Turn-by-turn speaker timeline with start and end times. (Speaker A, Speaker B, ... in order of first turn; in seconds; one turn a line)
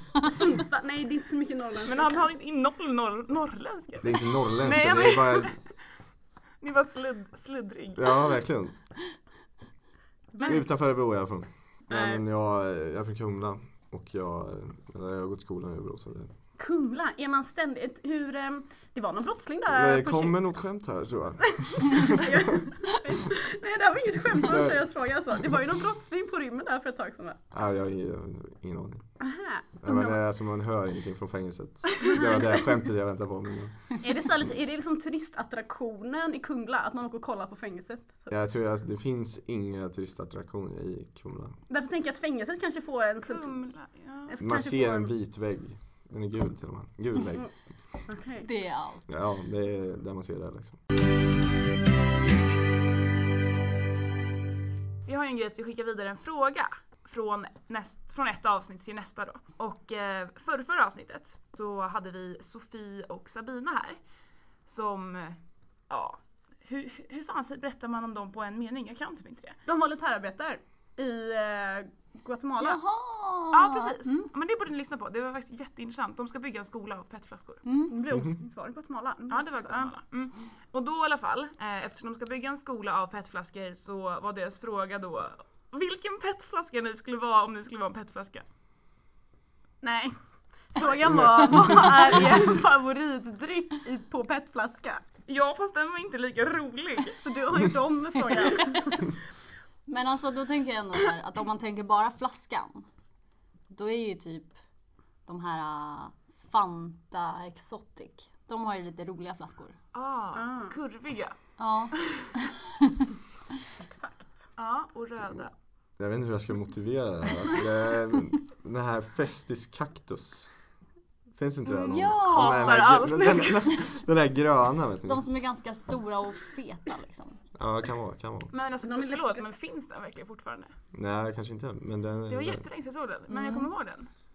Speaker A: 0.2-2.3
Speaker B: 1.8-5.6
Speaker C: 4.0-5.5
Speaker B: 6.6-8.2
Speaker C: 8.0-8.7
Speaker C: 10.4-16.3
Speaker A: 11.9-12.2
Speaker A: 16.6-20.3
Speaker C: 19.7-22.6
Speaker A: 22.0-27.4
Speaker C: 24.4-24.8
Speaker C: 27.5-29.0
Speaker A: 29.2-30.2
Speaker C: 29.8-33.9
Speaker A: 34.0-38.3
Speaker C: 38.3-41.5
Speaker A: 41.7-43.5
Speaker B: 43.2-44.3
Speaker A: 44.3-45.1
Speaker C: 44.4-47.5
Speaker A: 48.1-48.5
Speaker D: 48.4-49.0
Speaker C: 49.1-50.8
Speaker B: 55.0-64.0
Speaker B: 64.7-65.4
Speaker B: 65.9-69.6
Speaker A: 69.7-72.8
Speaker D: 72.6-74.3
Speaker B: 73.5-77.6
Speaker D: 77.6-78.0
Speaker A: 77.9-79.9
Speaker C: 78.1-78.3
Speaker B: 79.3-88.4
Speaker A: 89.8-90.1
Speaker A: 90.7-95.0
Speaker B: 95.3-97.2
Speaker A: 97.2-99.1
Speaker D: 99.9-102.9
Speaker D: 103.7-104.5
Speaker D: 105.2-109.8
Speaker B: 109.9-111.3
Speaker A: 110.3-110.7
Speaker D: 111.6-113.0
Speaker B: 111.9-112.3
Speaker A: 113.8-114.5
Speaker B: 114.6-115.5
Speaker C: 116.0-120.5
Speaker C: 121.3-125.2
Speaker B: 121.6-123.8
Speaker D: 121.9-122.8
Speaker D: 125.0-127.4
Speaker C: 127.5-128.5
Speaker B: 128.5-130.7
Speaker A: 128.8-129.4
Speaker C: 130.9-132.6
Speaker B: 132.3-134.1
Speaker D: 133.3-133.7